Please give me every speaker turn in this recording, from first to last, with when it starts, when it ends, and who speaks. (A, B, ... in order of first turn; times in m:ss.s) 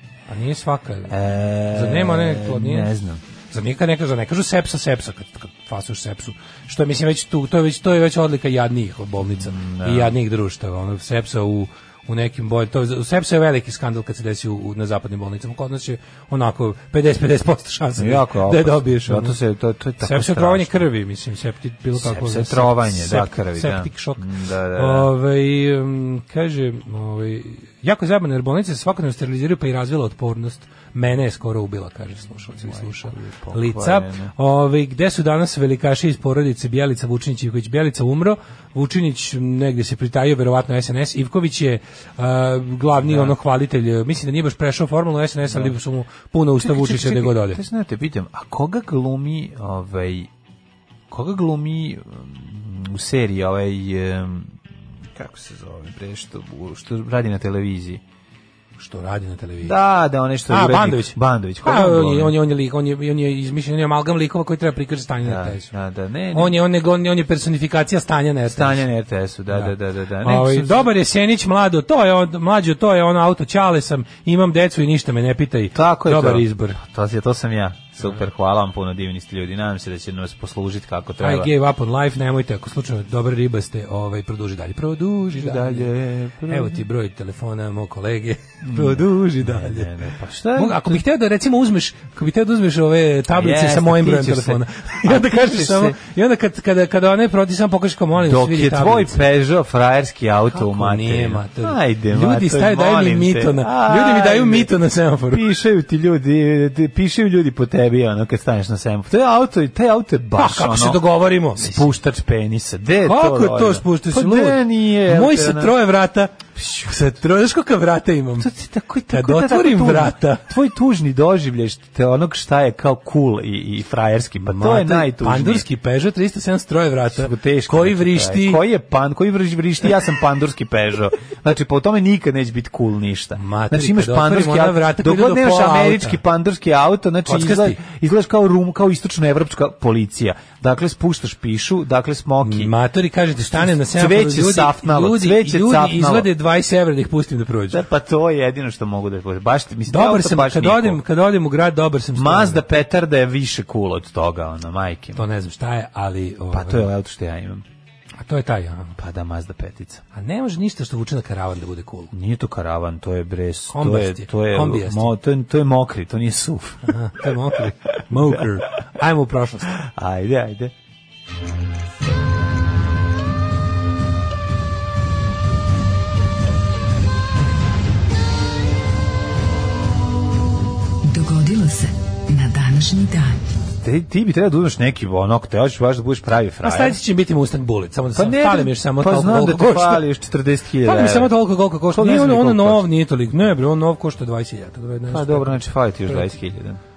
0:00.3-0:01.2 A
0:01.1-0:03.2 B
0:01.7-0:02.9 A
0:03.5-0:19.4 A
0:09.3-0:10.2 B
0:18.0-0:20.8 B
0:20.0-0:24.2 A
0:22.0-0:25.1 B
0:24.8-0:47.6 A
0:32.6-0:34.3 B
0:43.0-0:43.3 B
0:45.5-0:45.8 B
0:46.6-0:50.3 B
0:51.1-0:54.6 B
0:55.1-0:58.0 B
0:58.8-0:59.8 A
0:59.6-1:02.4 B
1:00.5-1:05.7 A
1:05.2-1:06.6 B
1:06.3-1:08.8 A
1:08.5-1:10.9 B
1:09.5-1:16.8 A
1:15.7-1:21.5 B
1:21.2-1:25.9 A
1:25.3-1:26.8 B
1:26.5-1:29.9 A
1:28.6-1:31.0 B
1:30.6-1:39.2 A
1:33.3-1:36.0 B
1:38.2-1:44.7 B
1:40.5-1:45.5 A
1:45.3-1:51.0 B
1:50.4-1:51.9 A
1:51.6-1:55.8 B
1:53.0-1:58.5 A
1:56.6-1:57.2 B
1:58.4-2:05.7 B
1:59.1-2:00.4 A
2:04.4-2:08.6 A
2:07.1-2:22.7 B
2:13.4-2:16.2 A
2:17.3-2:17.8 A
2:22.4-2:27.8 A
2:23.5-2:26.3 B
2:27.7-2:31.0 B
2:29.9-2:32.7 A
2:32.2-2:35.2 B
2:35.2-2:36.9 A
2:36.5-2:37.6 B
2:38.2-2:39.0 A
2:39.0-2:40.0 B
2:40.1-2:42.1 A
2:42.1-2:47.2 B
2:43.7-2:45.1 A
2:46.8-2:49.8 A
2:48.2-2:48.4 B
2:49.8-2:50.7 B
3:01.0-3:03.4 C
3:03.8-3:07.0 B
3:06.6-3:10.0 A
3:08.2-3:11.3 B
3:10.8-3:16.3 A
3:11.9-3:12.8 B
3:15.1-3:16.8 B